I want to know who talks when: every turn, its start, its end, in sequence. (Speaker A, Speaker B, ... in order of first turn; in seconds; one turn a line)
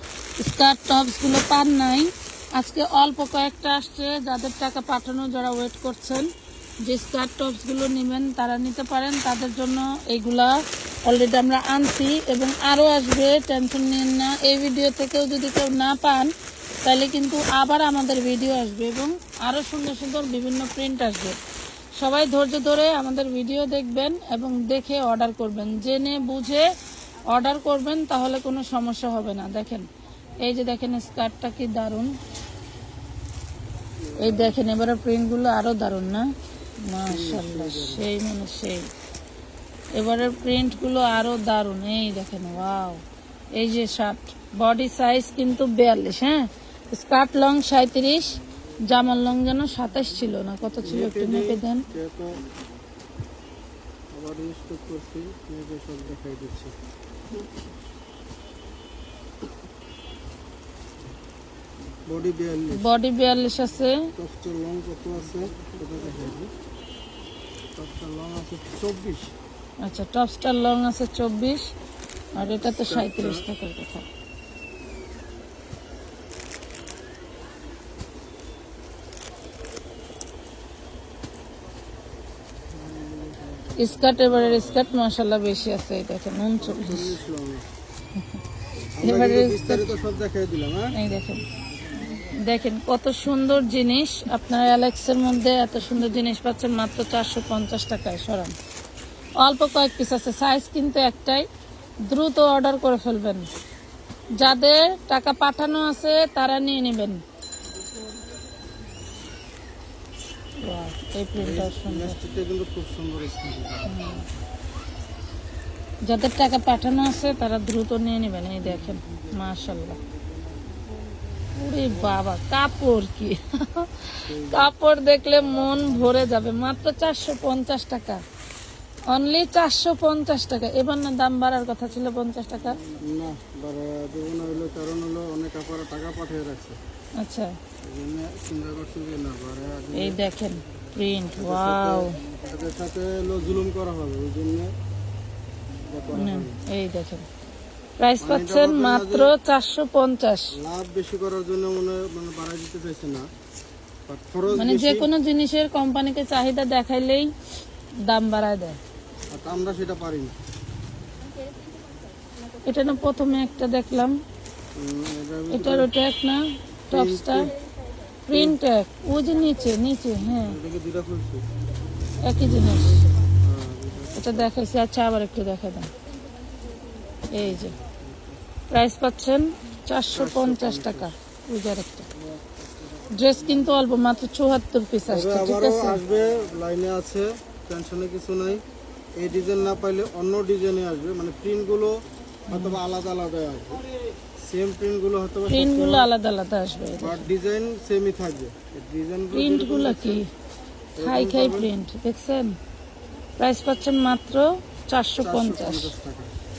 Speaker A: 0.4-6.3
Speaker A: 6.8-16.3
Speaker A: 16.9-21.4
Speaker A: 22.0-26.7
Speaker A: 27.3-32.1
Speaker B: 34.1-34.5
Speaker A: 34.2-36.3
Speaker A: 36.9-38.9
Speaker B: 37.1-38.1
Speaker A: 40.0-43.0
Speaker A: 43.5-51.9
Speaker B: 50.8-52.4
Speaker B: 54.1-56.7
Speaker B: 62.1-62.9
Speaker A: 62.7-64.1
Speaker B: 64.2-66.5
Speaker B: 67.8-69.3
Speaker A: 69.8-71.7
Speaker A: 72.3-74.1
Speaker B: 72.4-73.5
Speaker A: 83.8-87.2
Speaker B: 84.2-84.8
Speaker B: 86.6-87.7
Speaker B: 89.0-91.0
Speaker A: 89.0-89.8
Speaker A: 90.9-91.5
Speaker A: 92.0-98.5
Speaker A: 99.4-101.5
Speaker A: 102.1-103.5
Speaker A: 104.4-107.2
Speaker A: 110.6-112.2
Speaker B: 111.4-114.1
Speaker A: 113.9-114.3
Speaker A: 116.0-120.0
Speaker A: 121.5-128.2
Speaker B: 124.3-124.7
Speaker A: 129.1-132.8
Speaker B: 133.0-136.8
Speaker A: 137.2-137.6
Speaker B: 137.8-140.2
Speaker A: 139.9-142.2
Speaker B: 141.3-144.7
Speaker B: 145.8-146.6
Speaker A: 146.2-147.3
Speaker A: 148.0-150.5
Speaker B: 148.2-149.3
Speaker B: 150.5-153.3
Speaker B: 154.1-155.1
Speaker A: 154.5-157.3
Speaker A: 158.1-158.8
Speaker B: 159.3-160.3
Speaker A: 162.7-164.2
Speaker B: 164.8-165.9
Speaker A: 165.5-167.5
Speaker B: 166.9-167.5
Speaker A: 168.3-170.6
Speaker B: 168.3-168.6
Speaker B: 170.4-171.5
Speaker A: 172.2-173.1
Speaker B: 173.4-174.6
Speaker A: 174.2-175.9
Speaker A: 177.3-177.8
Speaker B: 177.4-178.3
Speaker A: 178.7-182.1
Speaker B: 180.1-181.1
Speaker A: 183.1-186.0
Speaker B: 185.1-188.7
Speaker B: 189.2-193.8
Speaker A: 192.5-192.8
Speaker B: 194.3-196.1
Speaker A: 195.5-197.2
Speaker B: 197.0-200.2
Speaker A: 199.3-200.3
Speaker B: 201.0-201.7
Speaker A: 201.0-202.6
Speaker A: 203.4-205.9
Speaker B: 205.2-206.3